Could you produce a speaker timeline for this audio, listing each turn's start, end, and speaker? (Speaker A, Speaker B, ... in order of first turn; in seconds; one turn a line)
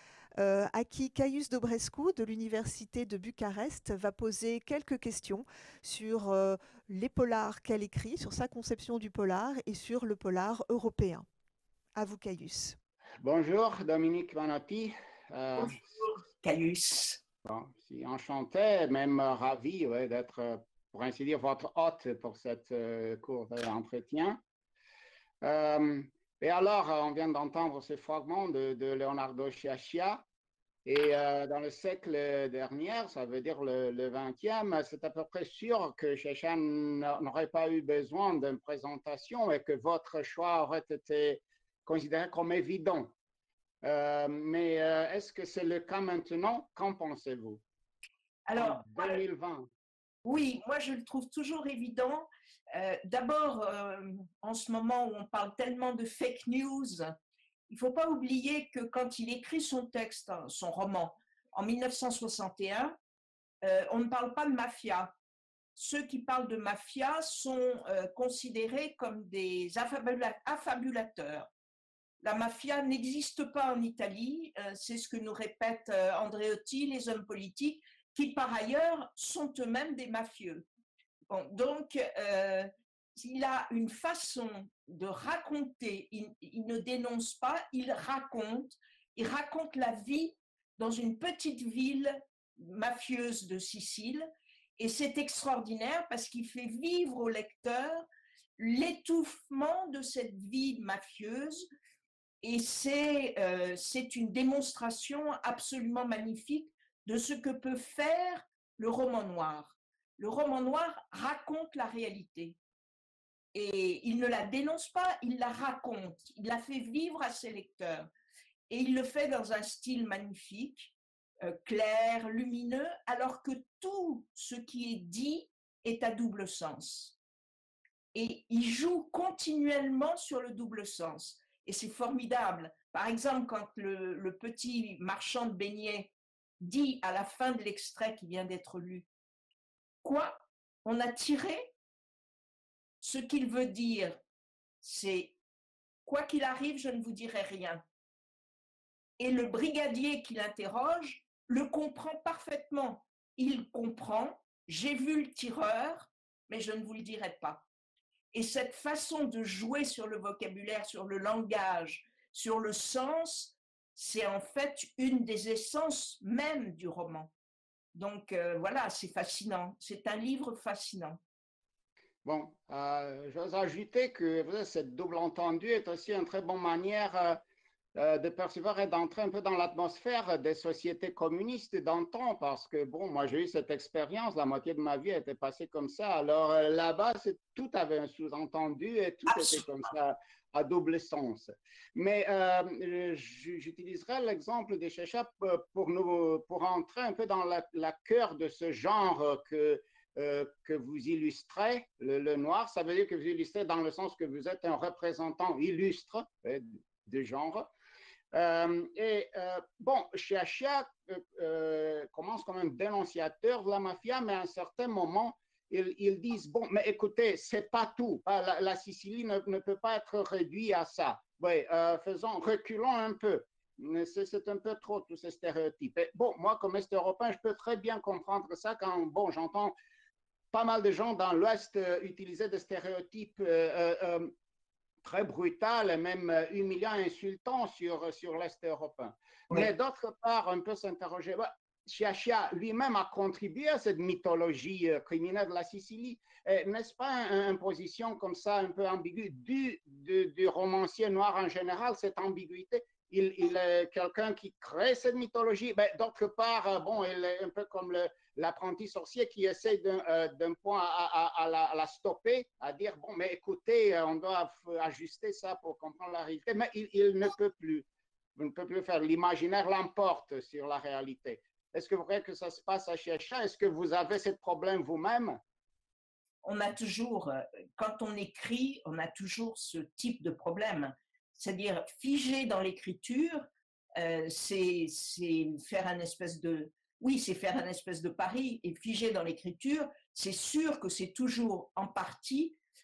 Speaker A: 0.4-11.2
Speaker A: 11.9-12.8
Speaker B: 13.2-15.8
Speaker C: 15.6-17.2
Speaker B: 17.4-24.4
Speaker B: 25.4-30.2
Speaker B: 30.9-43.1
Speaker B: 43.8-47.6
Speaker C: 48.5-49.2
Speaker B: 48.5-49.6
Speaker C: 50.2-57.1
Speaker C: 57.7-63.0
Speaker C: 63.6-65.1
Speaker C: 65.8-71.5
Speaker C: 72.2-80.7
Speaker C: 81.3-98.1
Speaker C: 98.6-101.7
Speaker C: 102.4-112.6
Speaker C: 113.5-118.1
Speaker C: 118.7-127.2
Speaker C: 128.1-139.1
Speaker C: 140.0-141.7
Speaker C: 143.0-144.2
Speaker C: 144.8-145.3
Speaker C: 146.0-147.8
Speaker C: 149.2-157.7
Speaker C: 158.3-167.3
Speaker C: 167.9-171.2
Speaker B: 172.2-177.4
Speaker B: 177.9-207.7
Speaker C: 189.3-189.6
Speaker B: 208.3-229.7
Speaker B: 230.5-234.3
Speaker B: 235.0-275.4
Speaker C: 276.4-292.6